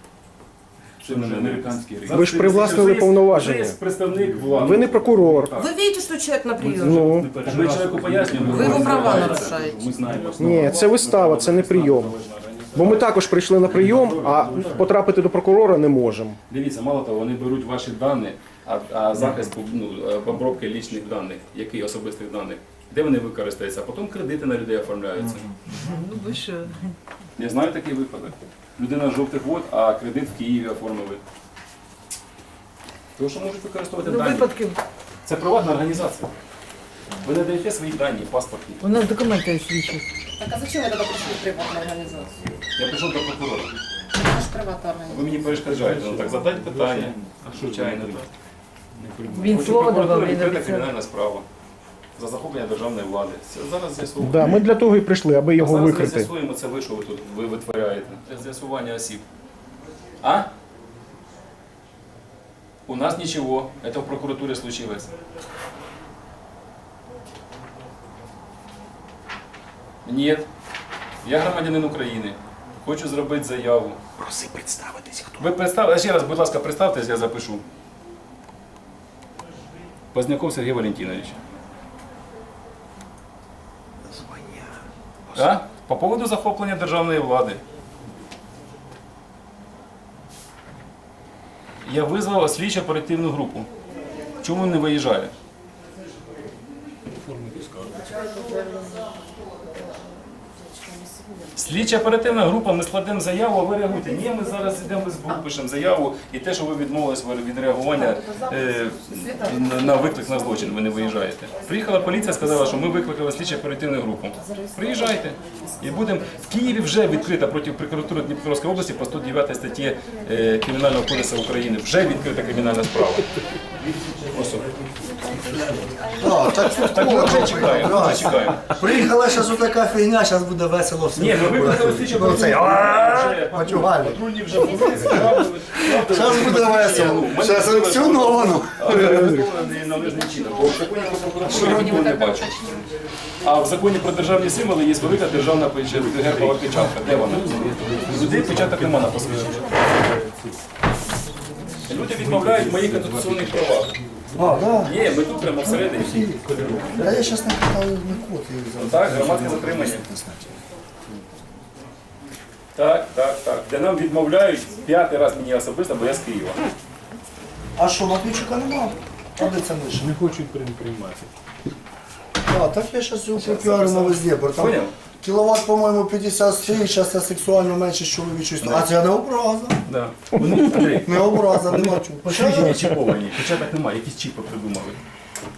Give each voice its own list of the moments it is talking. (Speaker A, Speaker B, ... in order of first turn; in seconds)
Speaker A: 1.0-2.9, 4.1-4.8, 6.6-14.9, 45.4-48.3, 48.9-49.8, 97.2-98.1, 136.6-137.0, 144.4-150.6, 151.9-155.0, 155.8-157.5, 170.0-171.3
Speaker B: 1.0-5.7, 7.4-9.6, 10.2-10.6, 16.5-25.5, 27.4-31.2, 33.2-34.5, 35.2-36.3, 37.2-39.1, 42.8-43.7, 45.1-48.3, 49.5-51.5, 52.2-54.7, 55.6-59.2, 60.2-60.5, 62.9-65.1, 70.0-70.5, 71.2-74.1, 75.4-77.6, 80.1-81.4, 85.3-87.6, 91.8-93.7, 94.4-95.3, 101.5-123.3, 124.3-124.7, 126.6-128.7, 131.2-142.5, 143.4-149.7, 151.9-153.9, 154.8-156.3, 158.8-160.1, 162.8-166.6, 173.4-174.9, 178.6-179.0, 179.9-185.0
Speaker C: 2.1-3.8, 4.5-5.5, 6.8-7.3, 10.4-12.2, 12.7-16.4, 54.2-56.3
Speaker D: 5.5-7.1, 8.4-10.2, 40.4-42.4, 44.1-45.4, 98.0-102.1, 104.0-105.4, 107.9-113.1, 114.4-117.6, 120.5-122.5, 125.3-128.0, 134.6-135.0, 139.3-142.9, 149.2-150.0
Speaker E: 25.8-26.9, 34.0-34.8, 38.8-40.0, 49.3-50.9
Speaker F: 84.2-84.8, 123.8-134.2, 134.9-135.5, 136.0-139.4, 141.5-141.8, 154.4-160.6, 167.8-170.2, 172.5-179.8, 180.9-182.9